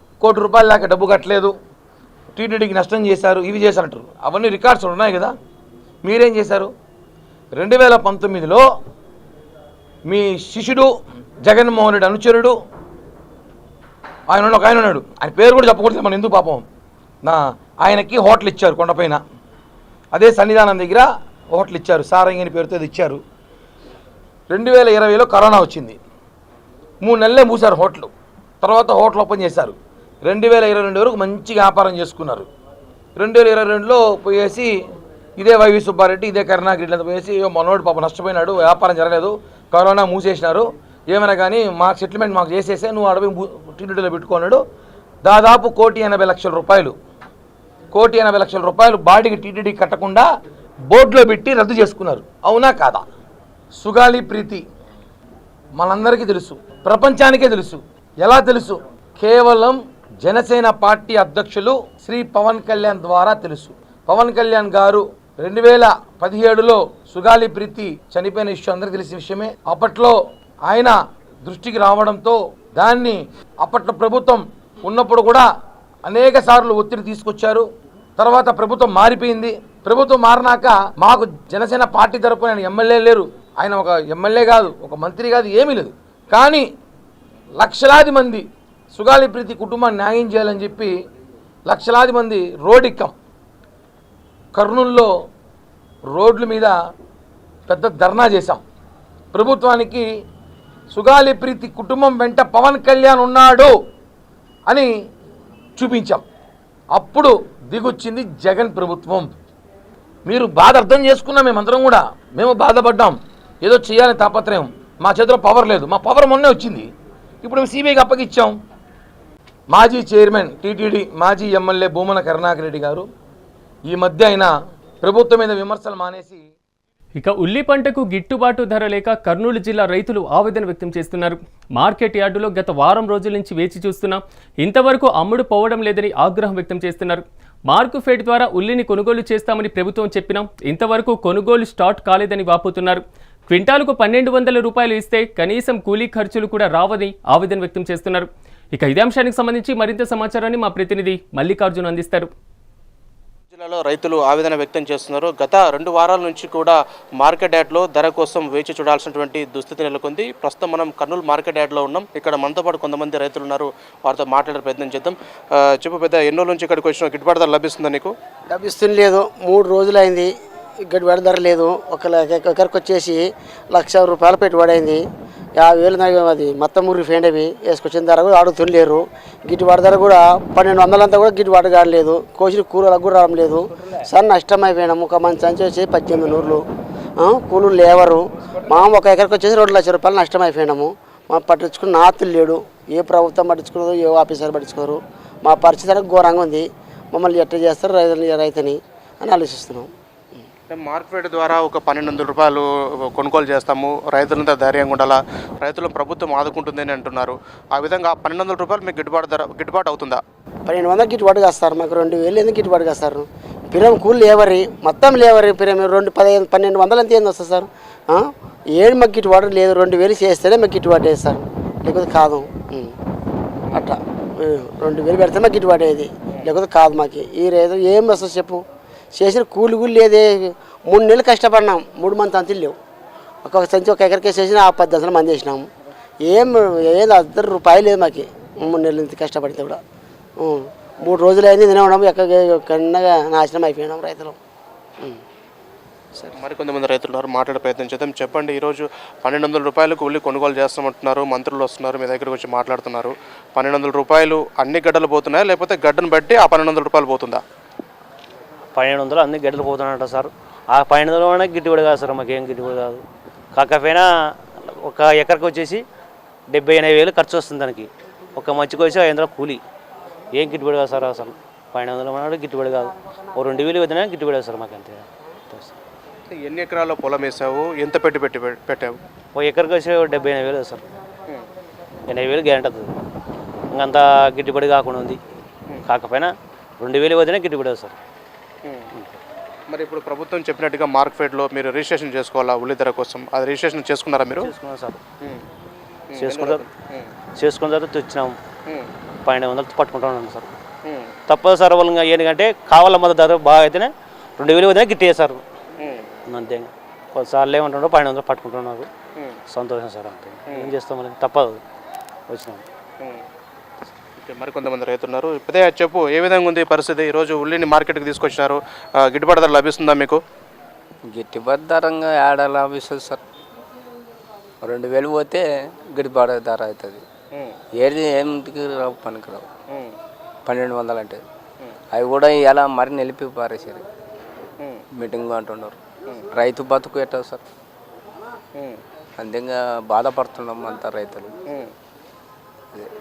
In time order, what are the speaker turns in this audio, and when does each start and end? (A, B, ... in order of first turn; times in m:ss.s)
0:00.2-0:01.5 A
0:02.4-0:05.3 A
0:06.0-0:06.7 A
0:07.5-0:08.6 A
0:10.1-0:10.9 A
0:11.4-0:12.6 A
0:14.3-0:16.6 A
0:17.2-0:19.2 A
0:20.1-0:23.2 A
0:24.5-0:26.0 A
0:27.0-0:28.1 A
0:28.6-0:32.5 A
0:33.2-0:34.7 A
0:35.4-0:44.6 A
0:45.2-0:47.0 A
0:47.9-0:50.2 A
0:50.9-0:53.0 A
0:53.8-0:54.6 A
0:55.8-1:15.5 A
1:16.1-1:26.7 A
1:27.6-1:30.9 A
1:31.7-1:33.1 A
1:34.5-1:35.1 A
1:36.1-1:36.8 A
1:37.7-1:38.6 A
1:39.3-1:40.1 A
1:40.9-1:43.7 A
1:45.8-1:46.2 A
1:46.9-1:49.3 A
1:50.3-1:56.9 A
1:57.4-1:58.5 A
1:59.7-2:03.1 A
2:03.9-2:04.5 A
2:05.0-2:06.5 A
2:07.2-2:32.3 B
2:33.5-2:48.1 C
2:48.5-2:50.3 D
2:50.8-2:55.0 D
2:55.6-3:06.6 D
3:07.2-3:20.4 D
3:20.7-3:30.2 C
3:30.7-3:43.0 D
3:43.7-3:48.6 D
3:49.2-3:52.8 D
3:53.4-3:55.7 D
3:56.2-3:59.8 D
4:00.4-4:04.4 D
4:06.4-4:17.4 C
4:18.8-4:23.0 E
4:23.6-4:24.1 E
4:24.6-4:25.8 E
4:26.5-4:29.6 E
4:30.3-4:35.8 E
4:36.3-4:39.0 C
4:39.4-4:40.8 E
4:42.1-4:42.9 E
4:43.7-4:45.2 E
4:45.8-4:48.0 E
4:49.7-4:54.5 C
4:54.4-4:55.0 E
4:56.1-4:57.1 C
4:56.2-4:56.6 E
4:57.4-4:58.4 E
4:59.2-5:00.5 E
5:00.8-5:01.1 C
5:01.3-5:05.4 E
5:05.8-5:06.0 C
5:06.3-5:08.9 E
5:09.5-5:11.6 E
5:12.3-5:12.6 E
5:14.2-5:20.2 C
5:21.1-5:23.2 F
5:24.6-5:27.0 F
5:27.8-5:29.5 F
5:30.5-5:31.2 F
5:31.9-5:33.8 F
5:35.0-5:35.8 F
5:36.3-5:37.4 F
5:39.2-5:41.3 F